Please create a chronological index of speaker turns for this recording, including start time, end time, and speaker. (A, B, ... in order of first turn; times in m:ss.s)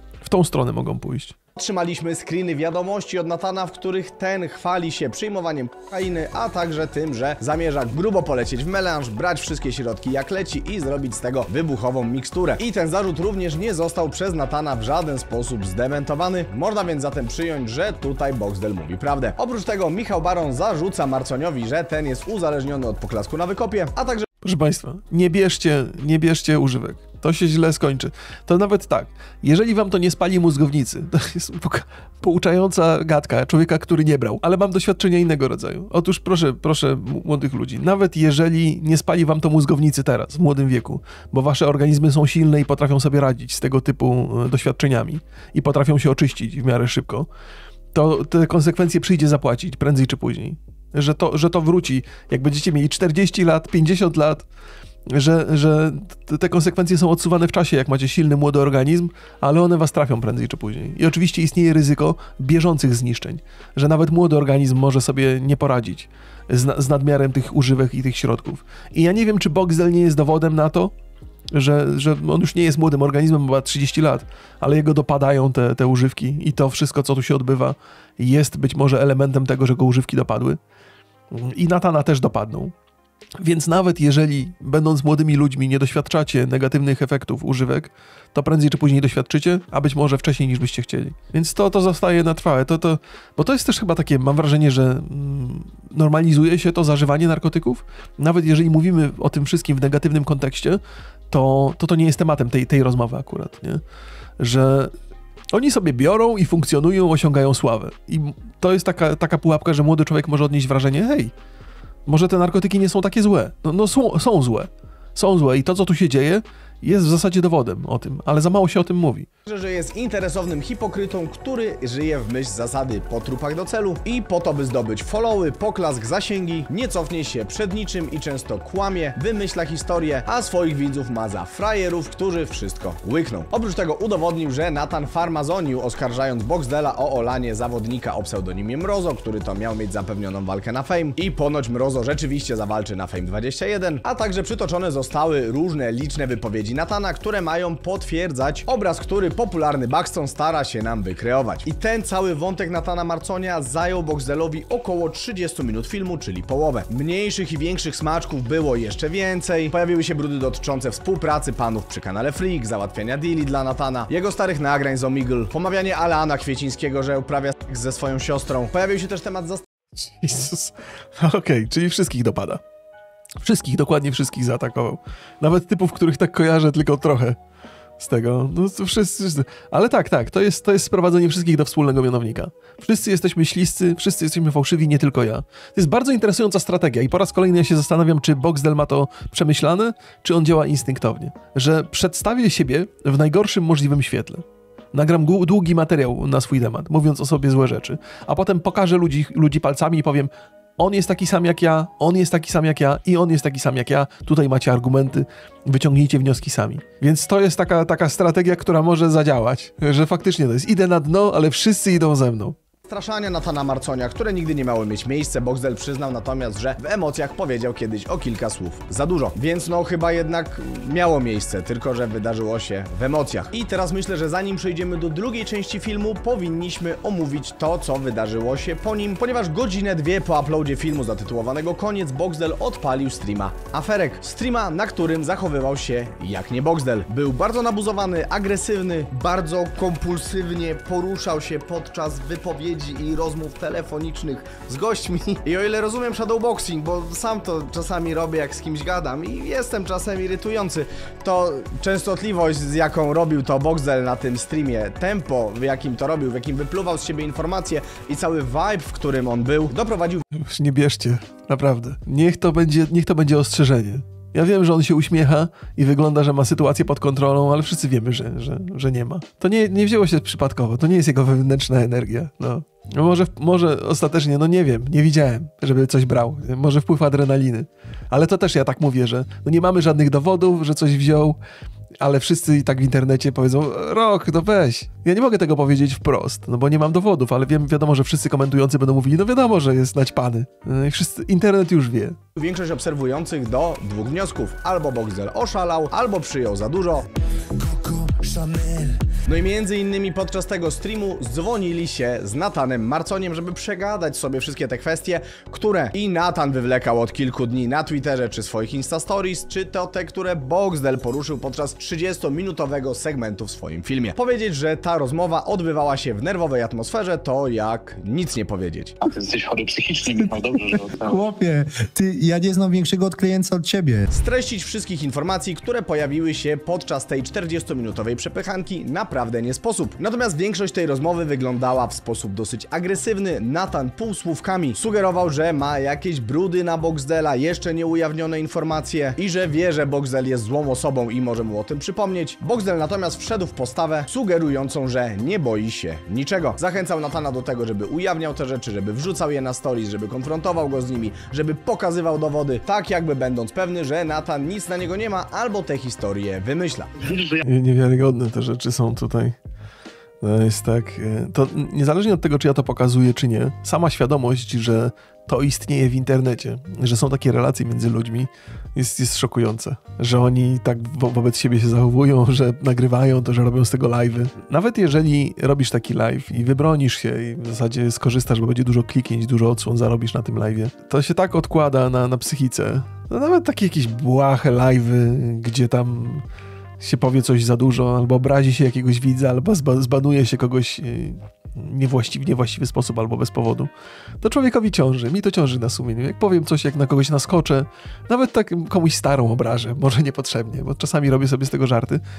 0:00.2-0:01.3 A
0:01.6-0:24.2 B
0:24.4-0:47.3 A
0:47.9-0:54.4 A
0:55.1-1:10.9 A
1:11.5-1:20.6 A
1:21.3-1:22.7 A
1:23.4-1:40.8 A
1:41.3-1:43.8 A
1:44.4-1:44.9 A
1:45.5-1:51.3 A
1:52.1-1:59.3 A
1:59.4-2:49.6 B
2:50.0-2:52.6 A
2:53.4-2:57.4 A
2:58.0-3:32.6 A
3:32.9-4:20.2 B
4:20.3-4:41.4 A
4:42.0-4:52.2 A
4:52.4-4:57.1 B
4:57.8-4:58.9 C
4:59.2-5:18.9 B
5:19.0-5:21.2 D
5:20.0-5:24.1 C
5:24.1-5:56.9 B
5:57.0-5:57.4 D
5:57.4-5:59.3 A
6:00.2-6:26.2 A
6:26.8-6:33.7 A
6:34.2-6:42.0 A